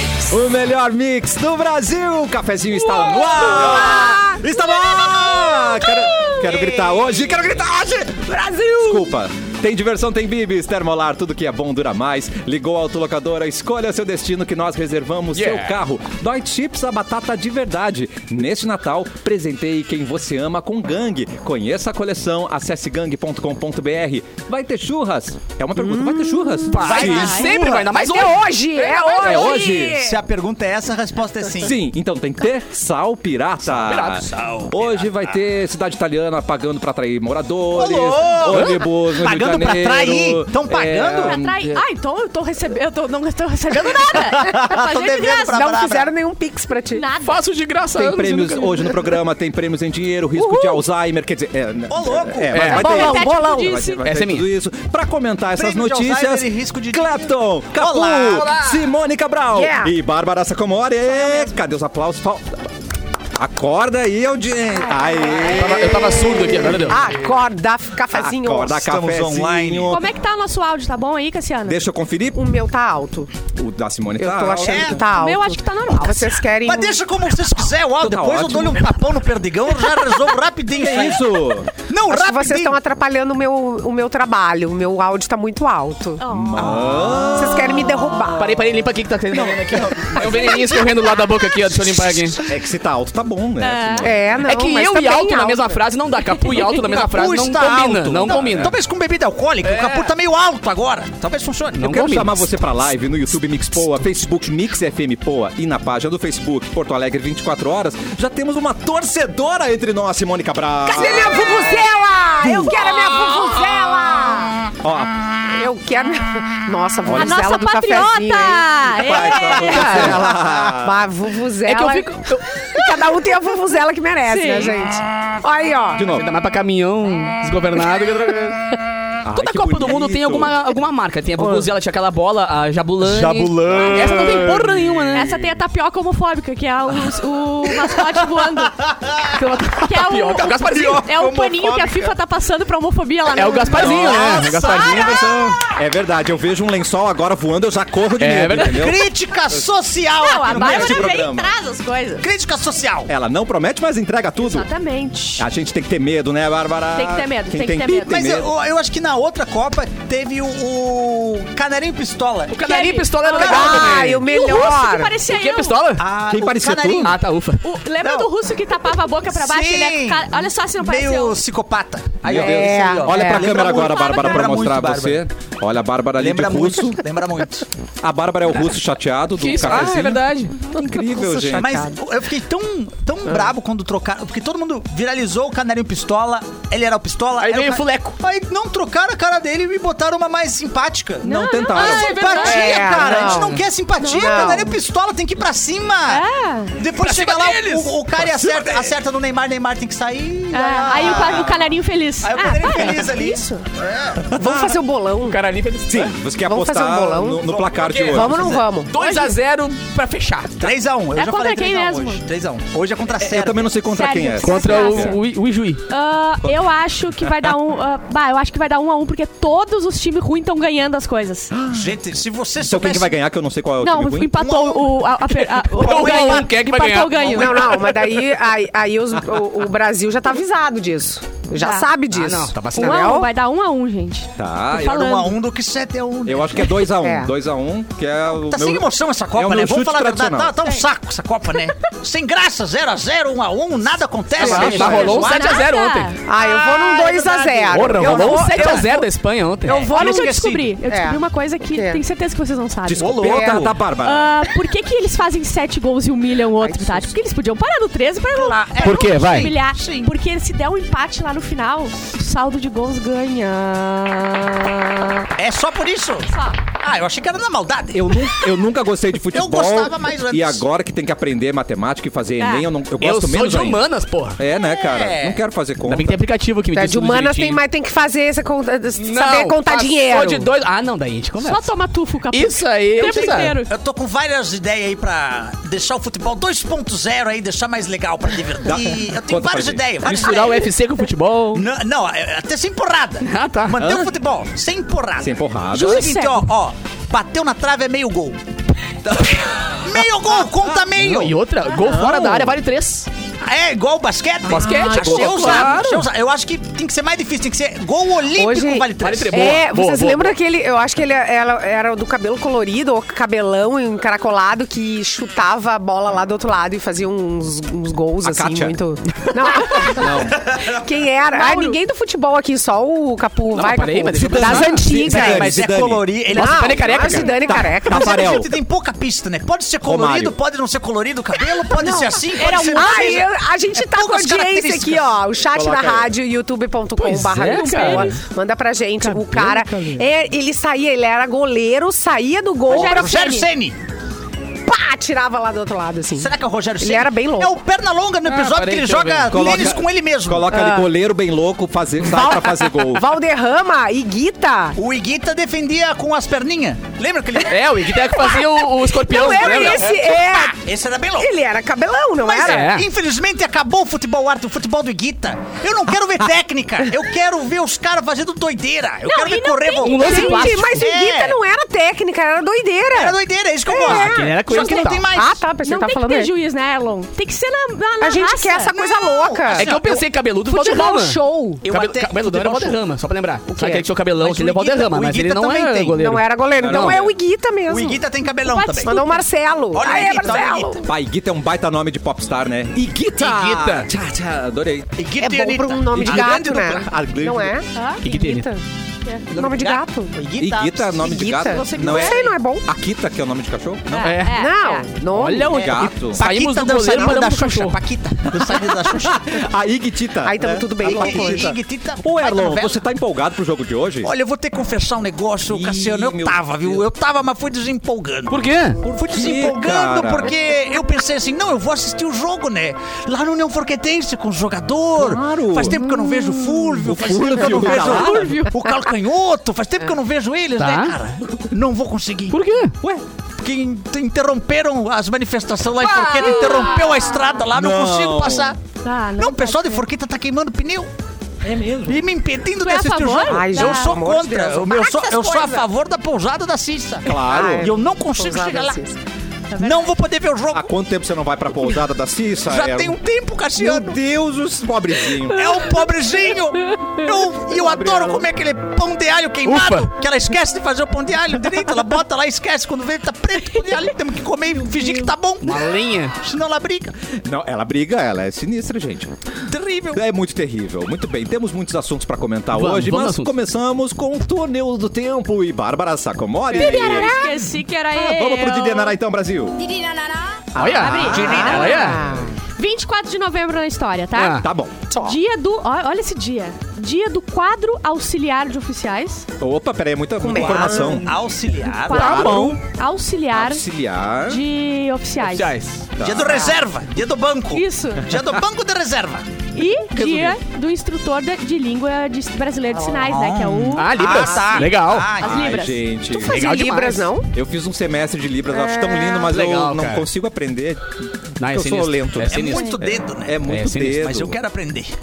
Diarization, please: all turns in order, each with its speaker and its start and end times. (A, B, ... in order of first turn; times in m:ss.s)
0:00.1-0:27.5 A
0:03.2-0:03.8 B
0:04.0-0:04.3 C
0:06.4-0:07.1 D
0:08.3-0:09.0 C
0:15.3-0:15.7 B
0:25.8-0:27.1 C
0:26.7-0:29.5 B
0:26.8-0:28.0 D
0:27.9-0:30.2 C
0:29.2-0:30.0 A
0:29.9-0:31.8 D
0:31.6-0:41.8 A
0:33.6-0:34.3 B
0:34.3-0:35.3 D
0:37.7-0:41.4 D
0:38.5-0:38.8 B
0:41.2-0:45.6 E
0:43.8-0:46.1 D
0:45.4-0:47.0 C
0:46.9-0:47.4 E
0:47.2-0:49.1 B
0:47.9-1:02.5 A
0:50.4-0:50.8 C
0:51.9-0:52.5 D
0:52.5-0:53.0 B
0:52.6-0:53.8 C
0:52.7-0:54.0 E
0:54.0-0:54.5 B
0:55.6-0:58.6 D
0:58.3-0:58.8 B
0:59.5-0:59.9 C
1:01.1-1:01.5 E
1:03.3-1:07.0 A
1:05.2-1:08.8 C
1:05.5-1:07.0 B
1:08.1-1:10.0 A
1:08.8-1:10.0 D
1:09.9-1:11.8 E
1:11.6-1:12.4 A
1:12.3-1:13.3 C
1:13.5-1:15.0 A
1:14.2-1:17.0 C
1:14.5-1:15.0 D
1:15.1-1:16.4 E
1:16.6-1:21.3 D
1:18.0-1:18.9 A
1:19.8-1:20.3 E
1:20.7-1:21.7 A
1:21.8-1:22.8 D
1:22.1-1:26.2 C
1:26.2-1:26.7 E
1:26.3-1:28.2 A
1:26.6-1:27.1 D
1:27.2-1:28.5 C
1:28.3-1:32.4 B
1:29.4-1:29.7 A
1:30.2-1:31.3 E
1:32.4-1:34.5 A
1:33.6-1:34.1 E
1:34.0-1:35.8 C
1:34.4-1:38.7 B
1:36.4-1:36.7 E
1:36.6-1:42.0 D
1:38.3-1:38.5 A
1:39.6-1:40.1 B
1:41.8-1:42.5 B
1:41.9-1:51.8 A
1:50.8-1:54.6 C
1:52.4-1:53.4 A
1:54.8-1:55.2 A
1:55.4-2:06.0 C
1:57.0-1:57.4 A
1:57.1-2:00.2 E
1:59.0-2:01.0 A
2:01.6-2:02.8 B
2:04.2-2:04.7 E
2:06.0-2:06.3 A
2:06.1-2:08.6 B
2:09.2-2:10.6 A
2:09.3-2:15.3 B
2:11.4-2:11.7 C
2:13.0-2:14.7 A
2:13.5-2:14.4 D
2:13.7-2:14.1 E
2:15.1-2:18.8 E
2:18.7-2:19.3 D
2:19.3-2:21.0 B
2:19.8-2:25.4 E
2:20.7-2:22.1 D
2:23.3-2:25.6 B
2:23.7-2:29.6 A
2:23.7-2:25.4 D
2:28.2-2:28.9 B
2:28.6-2:31.1 D
2:30.2-2:32.3 E
2:30.4-2:31.5 A
2:32.2-2:33.1 D
2:33.1-2:34.7 A
2:34.4-2:35.4 E
2:35.4-2:38.5 A
2:36.9-2:38.3 E
2:38.1-2:42.6 D
2:42.5-2:44.2 B
2:42.6-2:45.8 E
2:43.4-2:45.2 C
2:45.2-2:46.0 B
2:46.0-2:47.2 D
2:46.3-2:47.2 A
2:47.0-2:47.6 B
2:47.6-2:51.4 E
2:48.0-2:48.3 D
2:49.3-2:55.2 D
2:52.2-2:57.0 A
2:52.3-2:54.0 C
2:53.7-2:54.5 E
2:56.2-2:57.7 D
2:58.0-3:01.9 A
2:59.4-3:00.6 B
3:00.9-3:02.0 C
3:01.5-3:16.2 D
3:07.4-3:08.2 B
3:11.2-3:12.1 A
3:11.2-3:12.9 E
3:11.8-3:13.6 B
3:12.4-3:14.8 C
3:14.0-3:14.6 E
3:16.1-3:16.8 E
3:16.8-3:21.7 D
3:17.0-3:18.0 B
3:18.2-3:18.9 A
3:20.5-3:23.6 E
3:21.1-3:21.8 A
3:22.2-3:24.3 D
3:24.2-3:24.8 A
3:24.3-3:25.4 C
3:25.2-3:26.1 B
3:25.8-3:28.6 A
3:26.4-3:28.9 C
3:27.4-3:28.7 D
3:28.8-3:30.6 B
3:29.0-3:29.3 E
3:30.6-3:33.7 D
3:31.1-3:32.2 E
3:33.2-3:35.2 A
3:33.9-3:35.2 E
3:34.4-3:35.8 B
3:35.9-3:41.5 E
3:41.5-3:41.9 A
3:41.7-3:43.1 D
3:42.6-3:44.4 A
3:43.8-3:47.8 E
3:44.4-3:45.0 D
3:45.3-3:48.1 B
3:45.8-3:46.4 D
3:47.2-3:53.3 C
3:51.6-3:51.9 E
3:52.1-3:53.1 B
3:52.7-3:55.4 E
3:54.4-3:55.2 A
3:54.8-3:56.7 D
3:56.2-4:00.5 A
3:56.9-3:57.3 C
3:58.4-4:05.6 D
4:04.4-4:06.1 B
4:04.4-4:05.1 A
4:04.4-4:04.8 C
4:04.5-4:06.2 E
4:06.2-4:09.1 C
4:06.3-4:08.9 D
4:07.7-4:09.9 B
4:09.6-4:10.8 D
4:09.7-4:10.3 C
4:09.9-4:13.5 E
4:10.9-4:12.0 C
4:12.8-4:14.4 A
4:13.0-4:13.6 B
4:13.2-4:13.7 C
4:14.0-4:25.3 E
4:16.6-4:17.1 C
4:18.3-4:20.1 D
4:18.8-4:19.5 B
4:25.4-4:28.2 D
4:26.3-4:26.6 E
4:27.9-4:33.8 A
4:29.3-4:30.6 D
4:32.4-4:32.7 E
4:33.0-4:34.4 B
4:34.4-4:36.2 A
4:34.8-4:35.4 D
4:35.8-4:37.6 B
4:36.7-4:40.5 C
4:39.0-4:41.7 B
4:41.4-4:43.7 E
4:42.3-4:43.6 B
4:43.0-4:50.6 D
4:48.6-4:50.3 A
4:50.0-4:51.6 B
4:51.5-4:58.4 D
4:53.2-4:53.8 B
4:53.8-4:54.1 A
4:55.2-4:56.0 A
4:55.7-4:56.5 E
4:59.0-4:59.4 A
4:59.6-5:01.4 D
5:00.5-5:00.8 A
5:01.0-5:03.1 B
5:01.7-5:02.6 A
5:03.4-5:09.4 D
5:04.4-5:06.1 B
5:04.6-5:05.7 E
5:08.4-5:25.5 C
5:09.0-5:10.4 B
5:18.2-5:18.8 A
5:19.9-5:20.4 A
5:20.3-5:20.6 D
5:21.3-5:21.8 E
5:23.5-5:25.7 B
5:24.2-5:26.2 A
5:25.1-5:27.1 D
5:26.3-5:27.7 B
5:26.3-5:28.4 C
5:26.9-5:28.6 A
5:27.8-5:35.2 D
5:29.8-5:30.4 A
5:31.6-5:43.3 C
5:35.5-5:36.1 B
5:37.0-5:38.2 B
5:37.5-5:38.2 E
5:39.0-5:40.0 B
5:42.7-5:43.5 E
5:42.7-5:43.8 D
5:44.6-5:47.5 C
5:46.1-5:50.5 D
5:48.2-5:49.7 B
5:49.3-5:53.1 A
5:50.5-5:50.9 C
5:52.0-5:54.8 C
5:54.8-5:57.6 D
5:57.4-6:00.0 B
5:58.0-6:00.6 C
5:59.4-6:01.3 D
6:01.2-6:02.7 C
6:02.2-6:11.4 D
6:02.4-6:02.9 B
6:09.0-6:10.5 E
6:09.8-6:10.8 B
6:10.0-6:16.3 C
6:12.9-6:15.4 D
6:13.8-6:15.1 B
6:15.6-6:18.7 E
6:18.0-6:22.8 C
6:18.6-6:19.8 D
6:19.5-6:27.0 B
6:21.7-6:22.0 D
6:23.5-6:23.9 C
6:24.2-6:26.0 D
6:25.9-6:28.0 C
6:26.5-6:27.1 A
6:27.7-6:29.0 D
6:28.4-6:29.2 E
6:28.8-6:30.9 C
6:29.7-6:30.8 D
6:30.8-6:35.0 A
6:33.2-6:33.9 B
6:35.0-6:36.9 D
6:35.2-6:38.6 C
6:36.0-6:37.6 A
6:37.7-6:38.0 E
6:38.0-6:38.5 B
6:39.3-6:40.2 C
6:39.3-6:41.2 D
6:40.4-6:44.2 A
6:41.0-6:42.6 C
6:41.4-6:42.3 E
6:43.9-6:44.9 E
6:44.0-6:44.5 B
6:44.3-6:45.7 C
6:45.1-6:47.8 B
6:45.5-6:49.2 D
6:45.5-6:46.2 A
6:48.4-6:54.1 A
6:50.2-6:51.6 C
6:50.8-6:52.8 D
6:54.0-7:12.4 D
6:55.5-6:56.8 A
6:58.3-6:58.8 B
6:59.0-7:00.3 A
7:05.0-7:05.8 A
7:06.8-7:08.4 A
7:07.4-7:08.8 E
7:10.6-7:10.9 B
7:12.3-7:12.7 B
7:13.4-7:18.6 D
7:15.8-7:17.4 E
7:16.1-7:16.6 B
7:17.5-7:18.5 A
7:18.8-7:19.9 E
7:19.2-7:20.9 D
7:21.4-7:22.0 A
7:21.8-7:28.8 D
7:22.6-7:24.0 E
7:23.2-7:25.6 C
7:27.0-7:27.7 A
7:27.2-7:29.0 C
7:29.5-7:30.0 E
7:29.6-7:30.7 D
7:30.5-7:33.0 A
7:32.4-7:34.0 D
7:33.6-7:35.6 A
7:35.3-7:46.9 D
7:35.4-7:37.0 E
7:37.5-7:38.3 A
7:39.4-7:39.9 B
7:43.3-7:43.9 E
7:45.4-7:46.2 B
7:47.2-7:49.1 A
7:49.4-7:50.0 D
7:49.9-7:57.2 A
7:52.5-7:53.3 B
7:56.5-7:58.9 E
7:56.6-7:57.5 C
7:57.9-7:59.7 A
8:00.5-8:02.1 A
8:00.6-8:02.0 B
8:00.8-8:01.9 E
8:01.0-8:02.0 D
8:01.1-8:02.3 C
8:02.6-8:09.3 E
8:04.1-8:04.4 B
8:04.4-8:04.7 A
8:04.9-8:05.2 C
8:09.4-8:11.2 A
8:10.2-8:11.1 C
8:10.3-8:12.3 D
8:11.7-8:13.6 E
8:11.9-8:12.6 B
8:12.0-8:12.6 A
8:13.3-8:14.4 A
8:14.2-8:15.6 E
8:15.2-8:15.8 B
8:16.0-8:16.5 A
8:16.0-8:19.2 D
8:17.5-8:18.0 E
8:19.5-8:24.5 E
8:20.0-8:20.3 A
8:22.7-8:23.1 C
8:23.0-8:25.6 D
8:23.8-8:25.1 B
8:25.2-8:25.8 E
8:25.2-8:26.4 A
8:26.1-8:27.3 C
8:26.2-8:27.1 B
8:27.3-8:34.4 A
8:28.5-8:29.3 C
8:29.3-8:30.1 B
8:31.4-8:32.8 B
8:32.3-8:33.4 D
8:33.5-8:34.1 B
8:34.0-8:34.9 D